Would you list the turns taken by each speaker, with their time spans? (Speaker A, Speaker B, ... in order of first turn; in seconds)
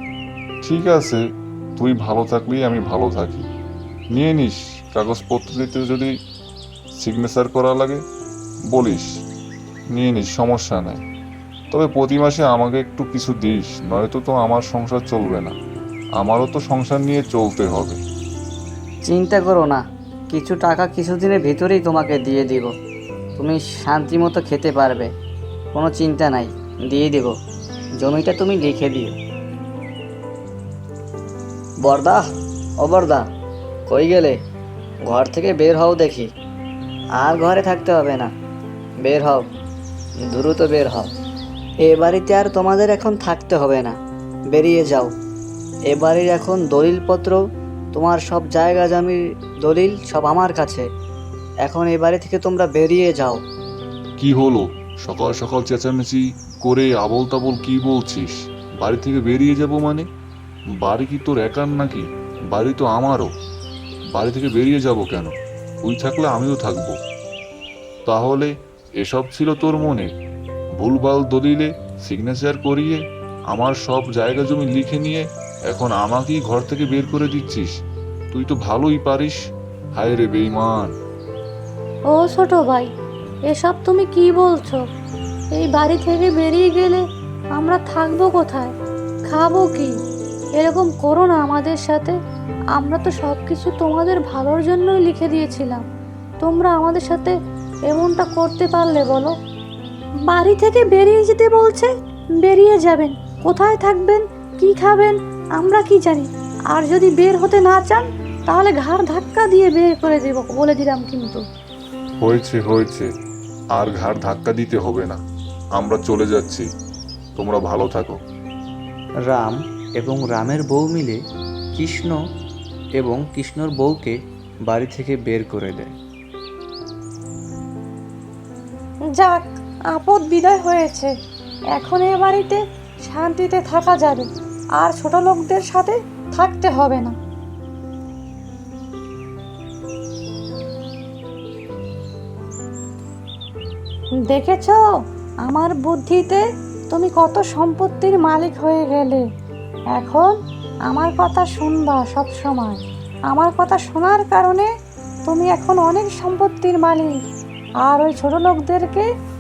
Speaker A: 0.6-1.2, 1.8-3.5, 4.1-6.1, 7.0-8.0, 8.7-9.1, 9.9-11.0, 11.7-15.5, 16.2-18.0, 54.2-60.0, 60.8-63.3, 64.1-66.9, 68.1-70.1, 70.8-73.0, 73.5-77.7, 78.3-79.4, 80.0-80.9, 112.2-113.1, 113.8-115.2, 115.8-116.7, 117.3-118.2
Speaker B: 19.1-22.7, 23.4-25.1, 25.7-27.3, 28.0-29.2, 31.8-32.2, 32.8-33.2, 33.9-34.4, 35.1-36.3, 37.2-38.3, 39.0-39.4, 40.3-41.1, 41.8-43.9, 44.5-45.1, 45.9-47.4, 47.9-50.8, 51.6-53.4
Speaker C: 82.1-82.9, 83.5-84.8, 85.5-87.0, 87.5-88.7, 89.3-89.9, 90.6-92.1, 92.7-95.8, 96.4-97.3, 97.9-99.3, 100.3-111.4, 129.2-131.1, 131.7-137.1, 144.3-144.8, 145.4-149.2, 149.9-150.3, 150.9-154.7, 155.2-157.2, 157.8-159.1
Speaker D: 119.3-121.2, 121.8-122.2, 123.0-124.2, 124.7-125.9